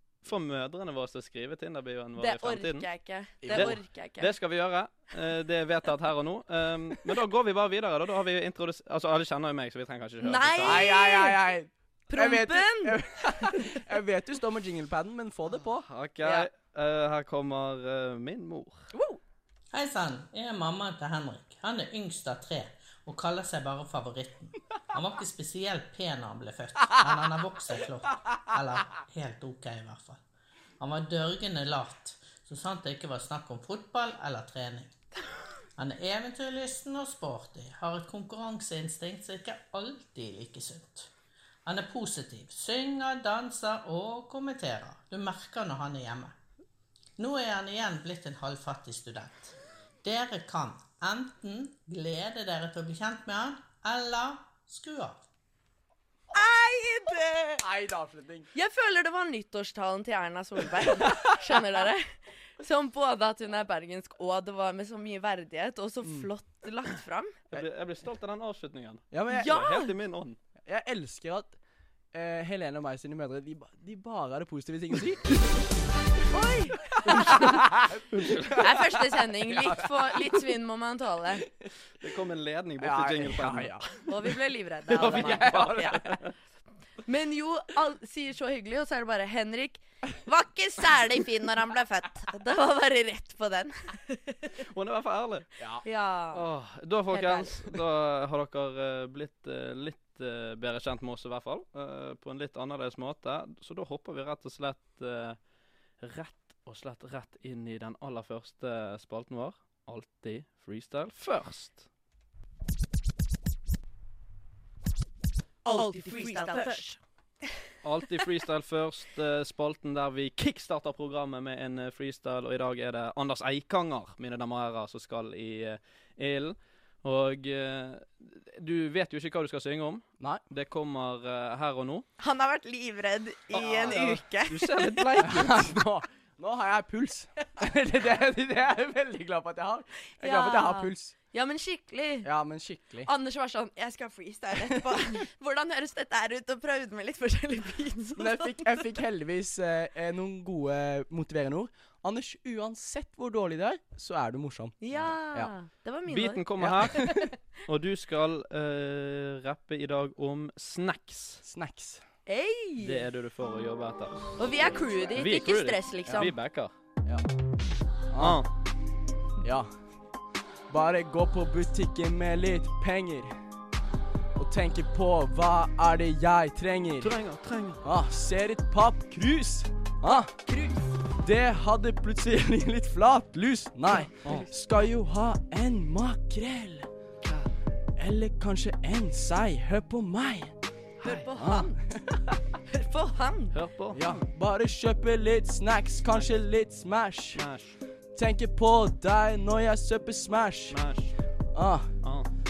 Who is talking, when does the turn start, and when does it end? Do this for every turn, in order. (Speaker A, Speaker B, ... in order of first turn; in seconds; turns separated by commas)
Speaker A: 0.2-2.9, Speaker B: 2.2-4.3, Speaker C: 3.4-3.8, Speaker A: 3.5-10.9, Speaker B: 10.2-11.4, Speaker C: 10.6-15.8, Speaker B: 12.1-13.8, Speaker A: 15.8-18.9, Speaker B: 16.2-16.5, Speaker D: 19.7-30.2, Speaker D: 30.8-34.9, Speaker D: 35.8-41.1, Speaker D: 41.6-46.3, Speaker D: 47.2-55.2, Speaker B: 56.3-57.6, Speaker C: 57.6-58.5, Speaker B: 58.5-67.3, Speaker C: 60.9-61.3, Speaker C: 66.0-66.3, Speaker A: 67.5-70.4, Speaker C: 69.1-69.6, Speaker B: 69.3-69.9, Speaker C: 70.6-71.5, Speaker C: 72.1-75.6, Speaker B: 76.3-77.6, Speaker C: 77.0-78.9, Speaker A: 77.0-78.7, Speaker B: 78.6-81.4, Speaker C: 79.5-80.4, Speaker A: 82.0-84.0, Speaker C: 82.8-83.8, Speaker B: 84.0-86.1, Speaker A: 84.9-86.3, Speaker C: 85.0-86.2, Speaker B: 87.0-94.5, Speaker A: 94.6-95.5, Speaker B: 95.8-96.4, Speaker A: 96.3-105.4, Speaker B: 97.1-97.5, Speaker A: 106.0-111.8, Speaker C: 115.6-116.9, Speaker B: 115.7-116.9, Speaker A: 117.8-132.1, Speaker B: 132.2-135.4, Speaker A: 133.5-135.7, Speaker C: 135.2-141.1, Speaker B: 140.1-142.3, Speaker C: 142.2-143.1, Speaker B: 143.0-149.0, Speaker C: 144.5-145.0, Speaker C: 148.2-155.5, Speaker B: 154.8-157.3, Speaker A: 156.1-161.4, Speaker C: 156.6-157.3, Speaker C: 161.4-162.0, Speaker B: 162.2-163.1, Speaker A: 162.8-164.3, Speaker B: 164.4-166.3, Speaker A: 165.2-166.7, Speaker C: 166.1-166.3, Speaker C: 168.1-168.4, Speaker A: 168.2-168.5, Speaker C: 169.4-169.7, Speaker C: 170.7-173.4, Speaker C: 174.3-177.1, Speaker A: 177.0-177.8, Speaker C: 177.8-180.3, Speaker B: 180.4-180.9, Speaker C: 181.2-186.9, Speaker B: 184.2-184.5, Speaker A: 187.2-187.5, Speaker C: 187.9-190.5, Speaker A: 191.0-191.3, Speaker B: 191.0-191.8, Speaker C: 191.3-192.4, Speaker B: 192.7-193.6, Speaker A: 193.5-194.2, Speaker C: 193.9-197.4, Speaker A: 197.3-197.8, Speaker C: 198.1-200.8, Speaker A: 200.7-201.1, Speaker C: 201.5-201.9, Speaker A: 202.0-202.3